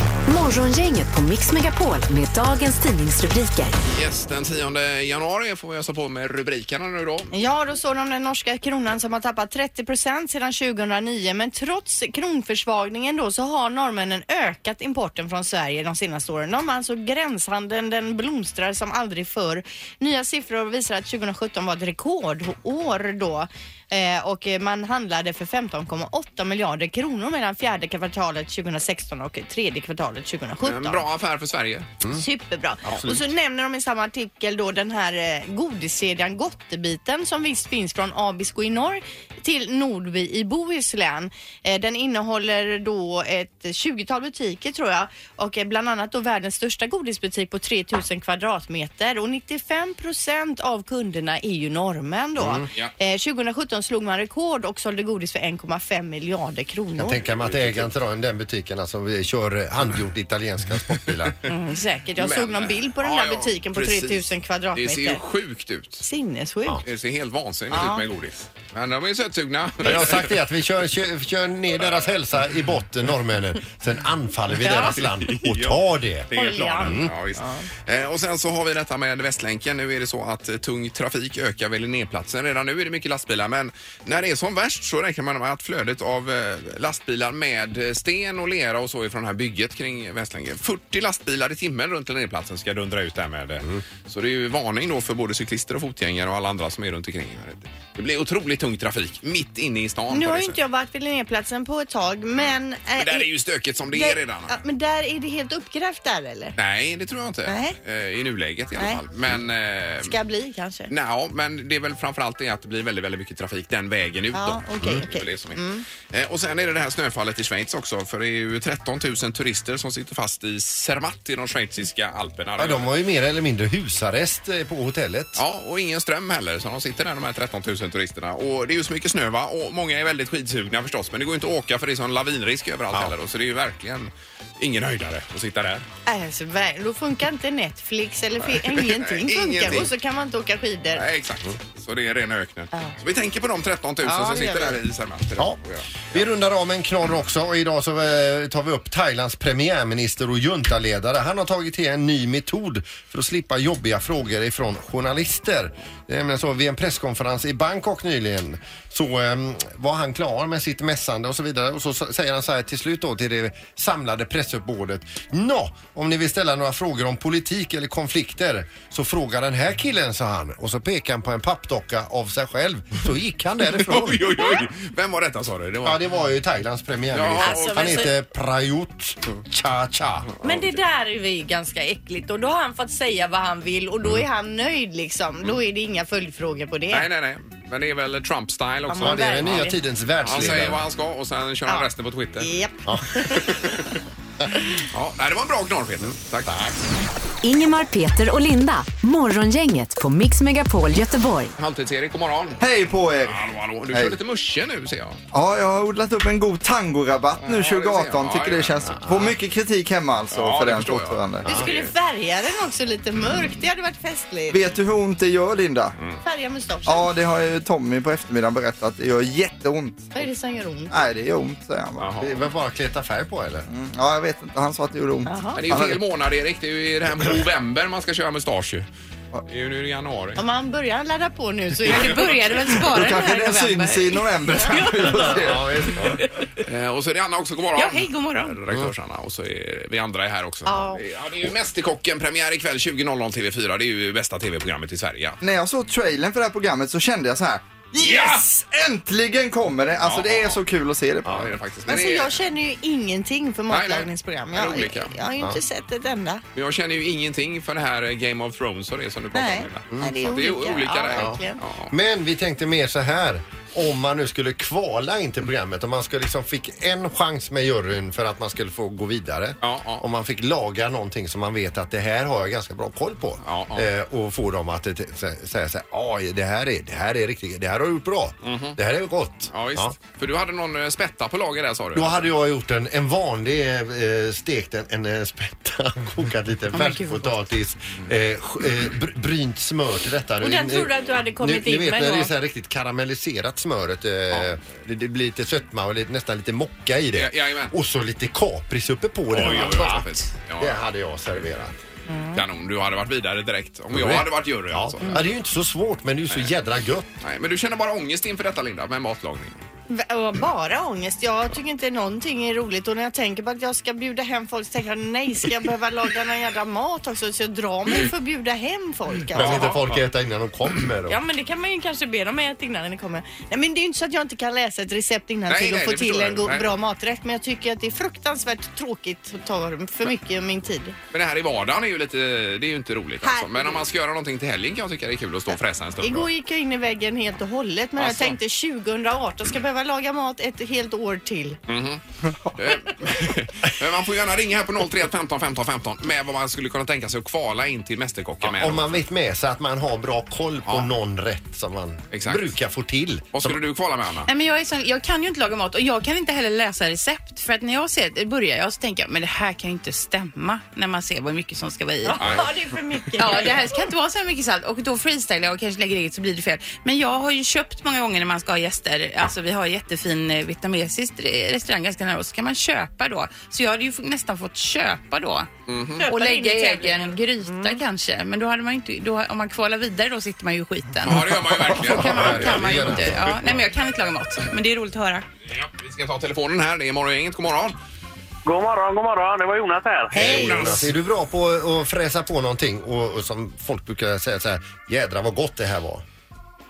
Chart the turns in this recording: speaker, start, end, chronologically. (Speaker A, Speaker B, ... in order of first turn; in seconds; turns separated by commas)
Speaker A: 0.3-3.7, Speaker B: 3.9-7.3, Speaker C: 7.3-31.0, Speaker B: 30.6-31.9, Speaker C: 32.1-57.2, Speaker D: 52.4-52.7, Speaker D: 57.0-61.4, Speaker B: 57.3-57.9, Speaker C: 61.5-65.2, Speaker B: 62.2-66.0, Speaker C: 66.0-66.8, Speaker B: 66.8-70.3, Speaker C: 67.7-68.0, Speaker D: 69.8-77.1, Speaker C: 74.6-75.0, Speaker B: 74.7-100.6, Speaker C: 76.3-77.6, Speaker C: 100.1-103.3, Speaker B: 103.0-104.5, Speaker C: 103.9-106.5, Speaker B: 106.5-110.1, Speaker C: 107.5-107.8, Speaker C: 110.0-110.9, Speaker B: 110.9-122.9, Speaker C: 114.3-115.8, Speaker D: 122.6-125.4, Speaker B: 125.3-135.8, Speaker C: 136.1-141.1, Speaker B: 138.5-139.9, Speaker B: 140.9-146.2, Speaker C: 144.0-144.8, Speaker D: 146.1-174.5, Speaker B: 173.8-176.0, Speaker D: 175.8-180.3, Speaker B: 177.1-178.1, Speaker C: 177.4-178.1, Speaker C: 180.4-187.1, Speaker B: 186.9-189.7, Speaker C: 188.9-189.8, Speaker D: 189.0-190.8, Speaker B: 190.2-192.5, Speaker C: 192.4-193.4, Speaker B: 193.6-193.9, Speaker B: 194.9-196.8, Speaker A: 197.4-201.5, Speaker B: 201.6-202.6, Speaker E: 202.6-204.2, Speaker B: 203.2-205.2, Speaker E: 205.3-211.5, Speaker B: 207.4-209.3, Speaker B: 210.3-211.9, Speaker C: 211.4-214.6, Speaker E: 214.5-216.0, Speaker C: 216.2-217.1, Speaker E: 216.8-220.2, Speaker C: 220.1-221.0, Speaker E: 220.9-222.1, Speaker B: 222.0-222.3, Speaker D: 222.2-223.7, Speaker E: 223.7-226.0, Speaker C: 225.3-225.6, Speaker B: 225.6-228.9, Speaker B: 229.5-230.4, Speaker C: 230.3-233.2, Speaker F: 231.9-235.1, Speaker E: 232.7-235.9, Speaker C: 234.6-235.3, Speaker D: 235.1-236.2, Speaker B: 236.6-245.4, Speaker F: 237.7-238.6, Speaker C: 240.7-241.0, Speaker E: 245.4-251.5, Speaker B: 248.0-248.4, Speaker B: 250.0-250.6, Speaker D: 251.2-251.5, Speaker B: 251.3-252.4, Speaker C: 251.9-256.4, Speaker B: 253.7-255.1, Speaker B: 256.5-261.9, Speaker C: 259.3-261.6, Speaker D: 261.1-279.9, Speaker B: 269.6-270.0, Speaker B: 273.4-273.9, Speaker B: 278.4-278.8, Speaker B: 279.5-282.2, Speaker D: 281.9-301.8, Speaker C: 290.4-292.3, Speaker B: 297.1-297.7, Speaker B: 299.3-300.8, Speaker C: 302.1-302.4, Speaker B: 302.3-305.2, Speaker D: 303.9-307.1, Speaker B: 307.2-309.6, Speaker C: 309.9-319.7, Speaker D: 319.3-321.2, Speaker B: 319.4-320.0, Speaker C: 321.1-330.9, Speaker B: 325.5-326.7, Speaker B: 331.1-336.3, Speaker C: 333.2-333.8, Speaker C: 336.0-341.6, Speaker B: 338.0-338.4, Speaker B: 341.7-342.0, Speaker B: 342.5-349.0, Speaker D: 348.4-353.6, Speaker B: 352.1-352.5, Speaker B: 353.3-354.3, Speaker F: 354.2-362.4, Speaker C: 362.0-363.8, Speaker B: 362.2-362.5, Speaker F: 363.2-375.5, Speaker B: 375.7-376.1, Speaker C: 376.0-377.8, Speaker F: 376.0-385.2, Speaker B: 381.0-383.3, Speaker D: 381.7-383.6, Speaker B: 385.5-387.8, Speaker G: 388.4-390.6, Speaker B: 390.1-390.9, Speaker D: 390.1-396.0